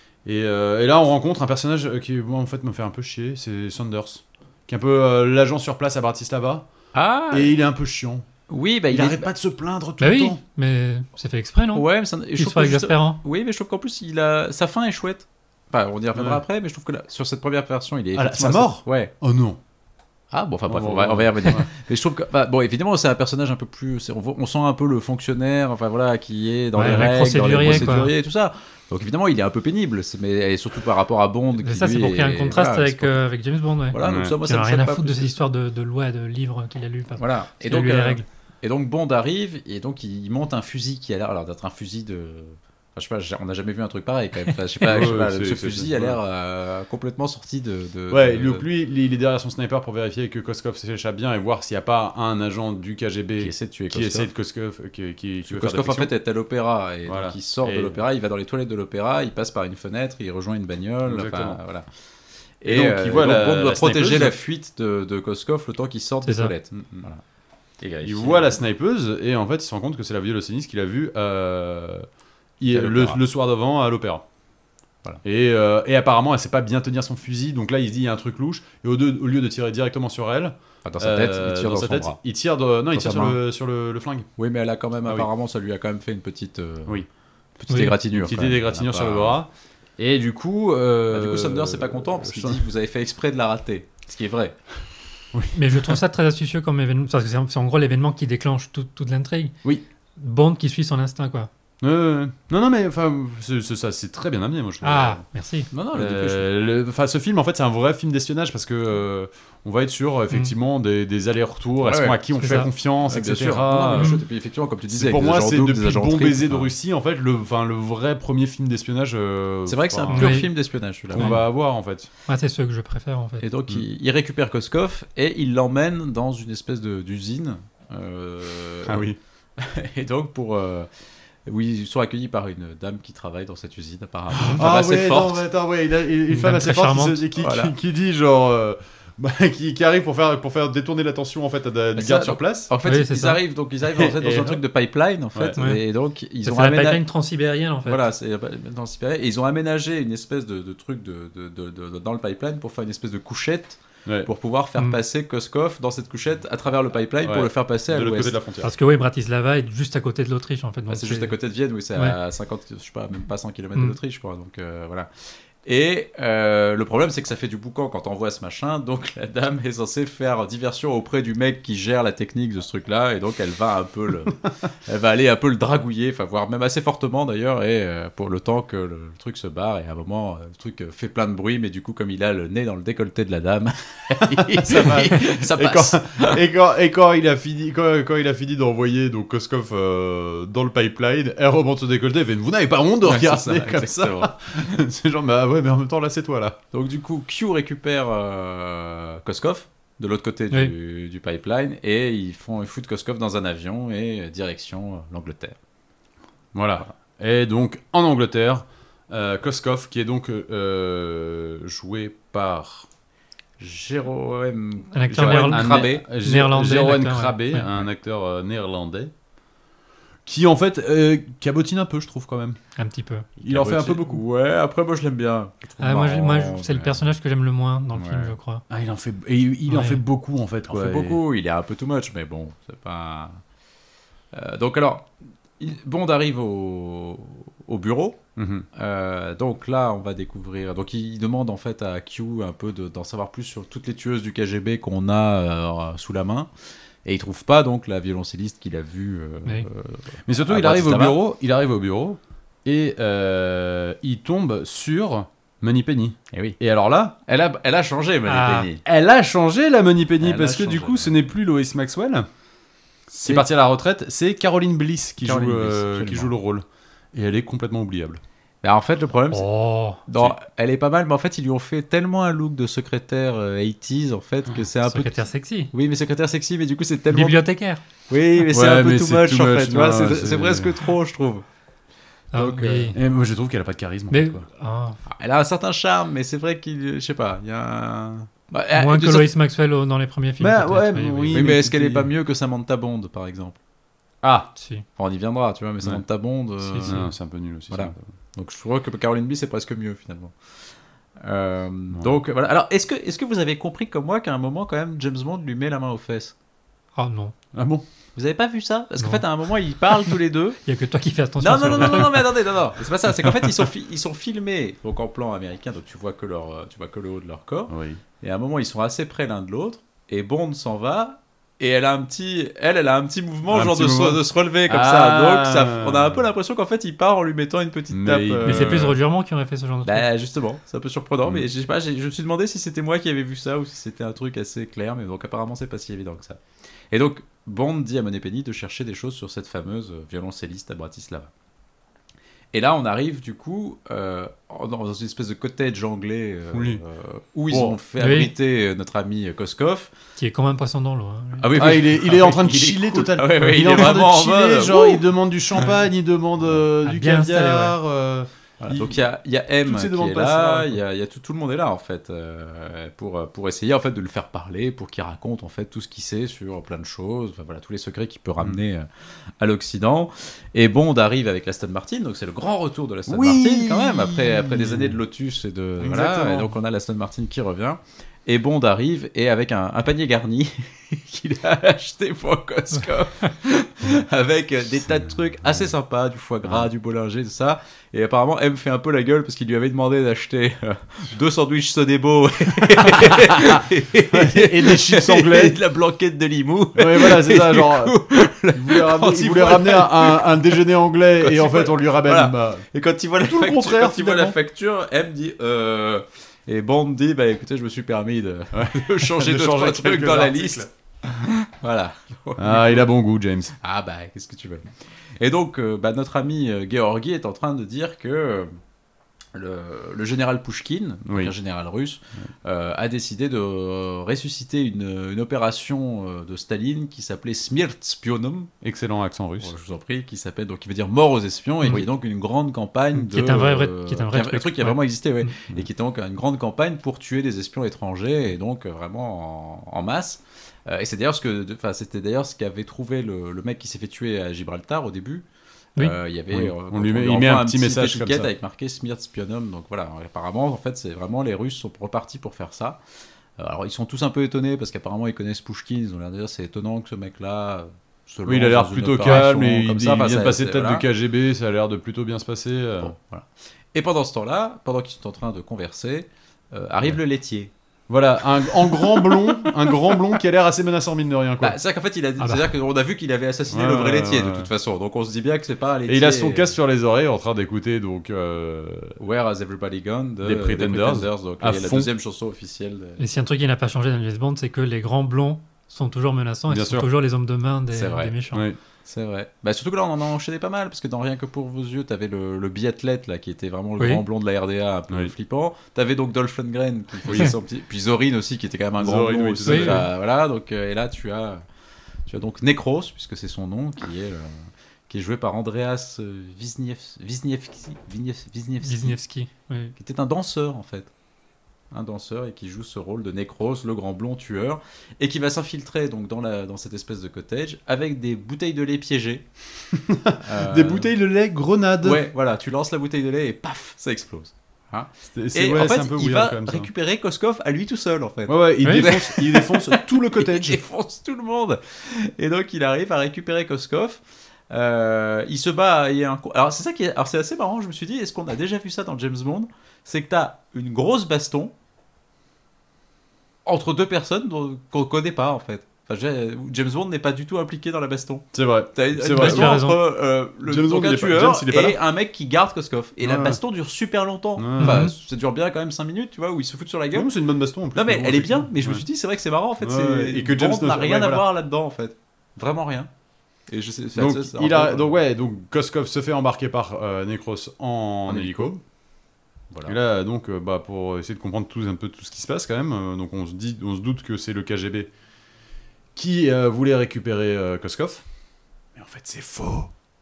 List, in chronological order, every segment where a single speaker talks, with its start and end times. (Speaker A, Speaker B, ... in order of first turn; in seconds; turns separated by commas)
Speaker A: 0.2-6.7, Speaker B: 6.9-7.6, Speaker A: 7.3-8.3, Speaker B: 8.5-9.3, Speaker A: 8.9-10.4, Speaker C: 10.0-13.2, Speaker B: 11.8-19.1, Speaker A: 16.1-16.4, Speaker A: 18.1-19.6, Speaker B: 20.3-33.3, Speaker A: 20.7-21.7, Speaker C: 26.8-28.1, Speaker A: 27.6-27.9, Speaker C: 31.6-38.2, Speaker B: 33.9-35.4, Speaker A: 34.0-34.4, Speaker B: 37.2-48.7, Speaker A: 44.8-46.2, Speaker A: 48.1-56.1, Speaker B: 53.4-54.3, Speaker B: 55.4-61.9, Speaker A: 57.1-58.0, Speaker A: 61.0-61.6, Speaker B: 62.6-67.2, Speaker A: 62.6-64.4, Speaker C: 66.2-66.5, Speaker A: 66.7-67.1, Speaker B: 67.8-68.6, Speaker A: 68.0-72.1, Speaker A: 72.6-74.2, Speaker B: 72.7-73.2, Speaker A: 75.2-84.3, Speaker B: 80.8-82.2, Speaker B: 82.9-83.4, Speaker B: 84.4-87.0, Speaker B: 87.6-89.4, Speaker A: 88.0-92.7, Speaker B: 91.1-94.6, Speaker A: 95.3-96.0, Speaker C: 95.5-99.5, Speaker C: 100.2-101.5, Speaker A: 101.8-105.2, Speaker C: 104.8-105.7, Speaker B: 105.7-106.5, Speaker A: 105.9-114.2, Speaker B: 111.8-112.2, Speaker C: 112.4-112.7, Speaker B: 113.1-116.7, Speaker C: 113.9-114.2, Speaker A: 114.9-120.5, Speaker B: 119.7-121.4, Speaker C: 120.1-120.5, Speaker A: 121.1-122.1, Speaker C: 121.2-121.4, Speaker C: 122.3-123.4, Speaker B: 123.4-129.1, Speaker A: 128.9-129.2, Speaker B: 129.6-130.9, Speaker B: 131.5-135.4, Speaker A: 134.3-142.7, Speaker C: 136.3-137.2, Speaker B: 137.4-137.7, Speaker B: 141.9-147.0, Speaker C: 142.8-143.4, Speaker A: 143.9-144.6, Speaker C: 145.6-145.8, Speaker C: 146.4-148.0, Speaker B: 147.8-158.3, Speaker A: 157.2-158.7, Speaker C: 158.6-161.3, Speaker B: 160.9-165.1, Speaker B: 165.6-186.4, Speaker A: 184.1-196.6, Speaker B: 193.0-194.8, Speaker B: 196.7-205.6, Speaker A: 206.5-212.9, Speaker B: 213.6-216.1, Speaker C: 214.9-217.7, Speaker A: 215.1-219.1, Speaker A: 220.3-222.6, Speaker C: 222.8-223.3, Speaker B: 223.4-227.1, Speaker A: 223.4-224.2, Speaker C: 225.8-228.7, Speaker B: 227.9-228.3, Speaker A: 228.7-231.2, Speaker C: 229.7-230.0, Speaker B: 230.7-233.4, Speaker B: 234.3-238.2, Speaker A: 238.4-238.7, Speaker B: 238.7-246.5, Speaker B: 247.1-251.2, Speaker A: 250.3-257.1, Speaker B: 256.3-256.6, Speaker B: 257.2-258.8, Speaker C: 258.3-258.7, Speaker A: 258.8-262.3, Speaker B: 260.2-261.2, Speaker B: 263.1-263.5, Speaker A: 263.2-268.2, Speaker B: 265.2-266.3, Speaker B: 268.6-269.5, Speaker C: 269.3-270.0, Speaker B: 270.1-277.4, Speaker C: 274.9-275.7, Speaker C: 277.1-277.8, Speaker B: 278.1-281.4, Speaker A: 278.4-280.9, Speaker C: 282.3-283.0, Speaker A: 282.3-284.5, Speaker C: 284.1-285.0, Speaker B: 285.1-289.3, Speaker C: 288.7-291.5, Speaker A: 290.4-292.1, Speaker B: 291.3-293.6, Speaker A: 294.2-294.5, Speaker C: 294.6-294.9, Speaker B: 295.0-297.1, Speaker C: 296.6-297.1, Speaker A: 296.8-298.0, Speaker B: 297.7-300.3, Speaker B: 301.2-306.3, Speaker C: 307.0-307.4, Speaker A: 307.5-307.9, Speaker B: 308.2-310.6, Speaker C: 310.6-312.3, Speaker B: 311.4-328.6, Speaker A: 317.7-318.0, Speaker A: 323.5-326.2, Speaker A: 327.9-329.0, Speaker C: 328.4-330.1, Speaker B: 329.9-341.3, Speaker B: 342.5-349.9, Speaker A: 346.5-346.8, Speaker A: 347.5-347.8, Speaker C: 348.0-348.3, Speaker C: 350.2-351.6, Speaker B: 351.4-355.1, Speaker A: 351.5-359.0, Speaker C: 356.8-357.8, Speaker B: 358.6-368.9, Speaker A: 359.6-360.8, Speaker B: 369.4-400.6, Speaker A: 373.1-375.0, Speaker A: 375.8-376.5, Speaker A: 392.8-395.6, Speaker A: 396.8-398.0, Speaker A: 398.5-402.7, Speaker B: 401.2-412.9, Speaker A: 403.3-404.4, Speaker A: 408.5-410.7, Speaker A: 412.4-413.5, Speaker B: 413.6-414.7, Speaker B: 415.2-418.5, Speaker B: 419.3-428.5, Speaker A: 421.1-421.3, Speaker A: 428.6-429.5, Speaker B: 429.4-445.2, Speaker C: 433.0-435.3, Speaker B: 445.8-452.8, Speaker A: 446.3-448.3, Speaker B: 453.4-460.9, Speaker A: 458.3-462.9, Speaker B: 462.8-467.5, Speaker A: 467.9-471.6, Speaker B: 468.5-469.9, Speaker B: 471.4-476.5, Speaker A: 473.5-474.5, Speaker A: 475.9-479.0, Speaker B: 479.0-483.0, Speaker A: 480.2-481.9, Speaker C: 483.0-488.4, Speaker A: 486.5-486.9, Speaker B: 487.7-488.1, Speaker A: 488.3-488.6, Speaker B: 488.9-501.4, Speaker A: 497.1-497.3, Speaker A: 498.8-499.9, Speaker C: 499.5-499.9, Speaker B: 502.1-509.0, Speaker C: 508.6-509.7, Speaker B: 509.8-510.9, Speaker B: 511.7-519.3, Speaker A: 519.7-522.0, Speaker B: 520.2-520.9, Speaker B: 521.8-541.5, Speaker A: 525.1-526.7, Speaker A: 528.3-530.6, Speaker C: 528.6-528.9, Speaker B: 543.5-557.1, Speaker A: 548.3-549.6, Speaker C: 549.1-549.8, Speaker A: 550.4-551.8, Speaker A: 553.0-553.4, Speaker A: 554.4-554.9, Speaker C: 554.6-554.9, Speaker A: 556.9-558.9, Speaker B: 557.8-562.9, Speaker A: 559.6-561.2, Speaker B: 563.5-564.9, Speaker A: 564.0-568.6, Speaker B: 568.1-568.5, Speaker B: 569.5-569.8, Speaker A: 569.7-574.9, Speaker A: 576.0-578.0, Speaker A: 578.8-579.7